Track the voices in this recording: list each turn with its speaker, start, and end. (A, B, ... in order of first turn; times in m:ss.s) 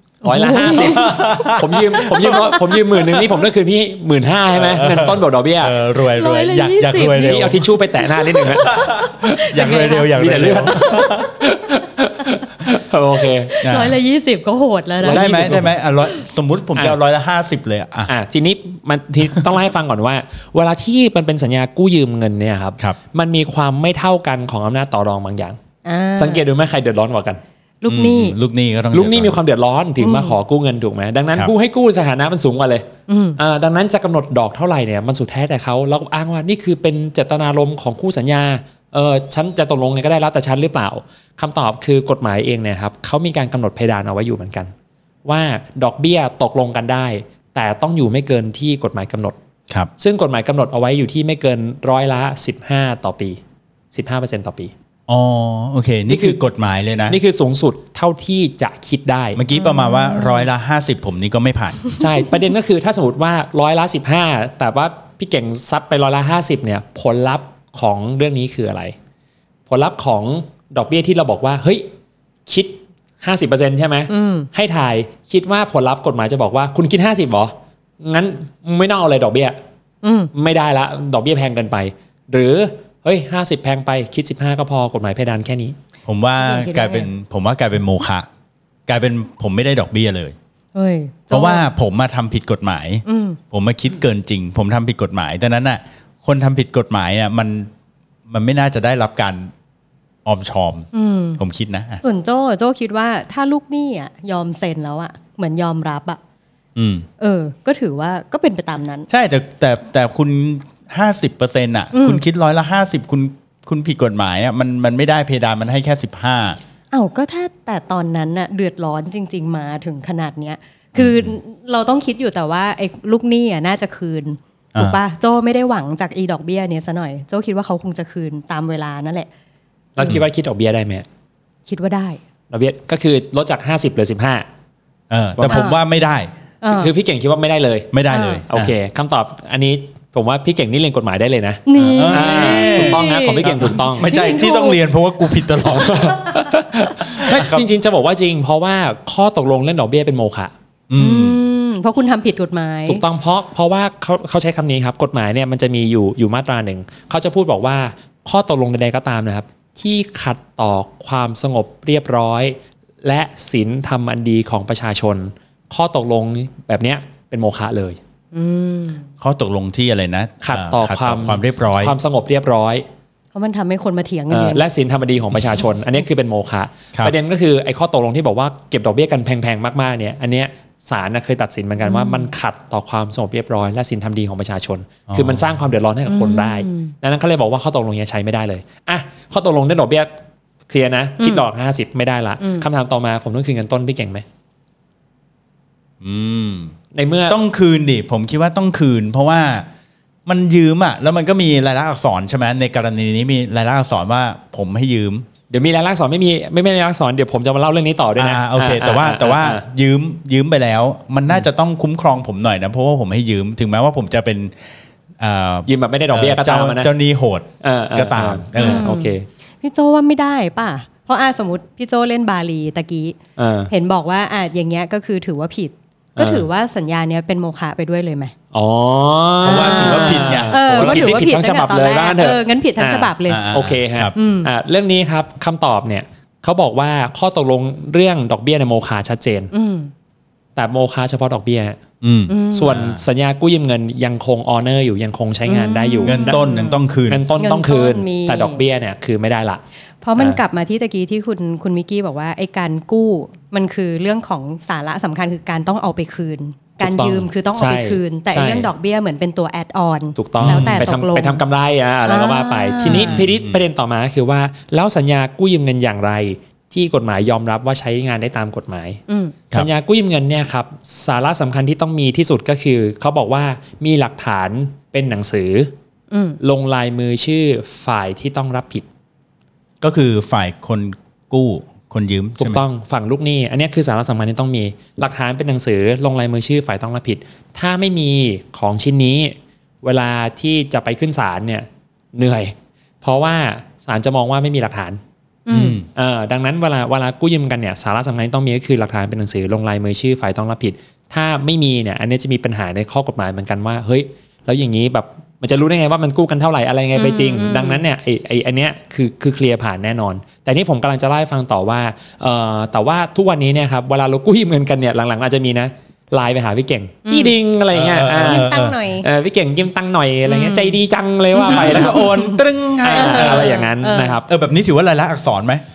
0:00.2-0:01.2 A
0:00.2-0:05.8 B
0:00.5-0:03.3 C
0:04.5-0:07.7 C
0:06.1-0:10.1 A
0:07.1-0:08.7 B
0:08.4-0:11.3 C
0:10.1-0:13.6 B
0:10.7-0:11.3 A
0:13.6-0:15.5 A
0:13.6-0:14.0 C
0:15.0-0:15.7 B
0:15.0-0:18.1 C
0:18.1-0:25.6 B
0:25.8-0:26.4 A
0:26.2-0:27.4 B
0:27.8-0:28.4 A
0:27.9-0:29.4 C
0:28.9-0:44.7 B
0:30.0-0:30.4 A
0:33.1-0:33.4 A
0:45.2-0:49.4 B
0:50.0-0:53.4 B
0:53.9-0:54.7 B
0:55.1-0:57.2 C
0:56.1-0:56.4 B
0:57.1-0:59.4 B
0:59.4-1:01.9 C
0:59.6-1:00.4 A
1:02.0-1:09.0 B
1:09.7-1:11.9 B
1:12.5-1:19.6 B
1:14.1-1:14.5 A
1:20.0-1:20.3 A
1:20.3-1:25.8 B
1:26.1-1:28.3 C
1:26.4-1:27.1 A
1:28.9-1:30.4 C
1:30.8-1:31.6 A
1:31.3-1:37.7 C
1:33.0-1:33.4 A
1:38.3-1:39.5 C
1:40.2-1:40.9 C
1:40.9-1:41.4 A
1:41.4-1:42.0 C
1:42.0-1:46.2 A
1:46.8-1:47.1 C
1:47.2-1:49.1 A
1:49.1-1:56.6 C
1:51.9-1:52.2 A
1:56.9-2:09.3 A
2:01.0-2:01.3 C
2:10.0-2:11.1 B
2:11.7-2:12.2 A
2:12.5-2:14.5 B
2:15.1-2:16.3 C
2:15.4-2:15.6 B
2:15.5-2:15.8 A
2:16.6-2:16.9 A
2:16.7-2:17.9 B
2:17.9-2:18.7 C
2:18.1-2:18.4 A
2:18.5-2:24.1 B
2:21.7-2:24.8 A
2:21.8-2:26.4 C
2:25.6-2:30.5 B
2:27.0-2:27.7 C
2:30.9-2:31.4 C
2:31.0-2:33.0 A
2:32.9-2:48.0 B
2:48.3-2:49.1 A
2:49.2-2:52.0 C
2:50.4-2:52.8 B
2:53.3-2:54.7 A
2:54.3-3:10.1 B
3:01.8-3:02.3 A
3:05.1-3:05.4 C
3:06.1-3:06.9 A
3:10.7-3:14.2 B
3:12.4-3:12.7 A
3:16.0-3:16.7 C
3:16.9-3:17.4 B
3:17.3-3:19.7 C
3:20.3-3:25.3 C
3:25.5-3:29.6 B
3:28.2-3:38.9 C
3:35.7-3:36.9 B
3:37.6-3:39.3 B
3:38.6-3:43.2 A
3:43.4-3:43.7 B
3:43.7-3:48.3 A
3:46.2-3:46.5 B
3:48.5-3:59.5 B
3:49.4-3:51.2 C
3:49.4-3:53.5 A
3:53.3-3:54.1 C
3:54.2-3:54.5 A
3:59.5-3:59.9 A
4:00.6-4:01.8 B
4:02.0-4:03.0 C
4:02.3-4:02.8 A
4:02.5-4:06.4 B
4:05.5-4:06.8 A
4:06.0-4:07.2 C
4:07.1-4:09.6 B
4:07.4-4:08.6 A
4:10.0-4:21.4 A
4:16.8-4:18.7 B
4:20.2-4:35.7 B
4:20.4-4:20.9 C
4:22.1-4:23.2 A
4:22.8-4:23.6 C
4:29.1-4:29.4 A
4:36.1-4:36.4 A
4:36.4-4:38.8 B
4:39.8-4:42.6 C
4:42.4-4:55.0 B
4:55.5-4:55.8 A
4:55.5-4:55.9 C
4:55.9-5:22.2 B
5:07.0-5:07.8 A
5:17.1-5:17.3 A
5:17.7-5:18.8 C
5:18.2-5:19.1 A
5:20.3-5:20.8 A
5:21.3-5:24.2 A
5:21.4-5:23.6 C
5:22.8-5:24.3 B
5:24.2-5:25.6 C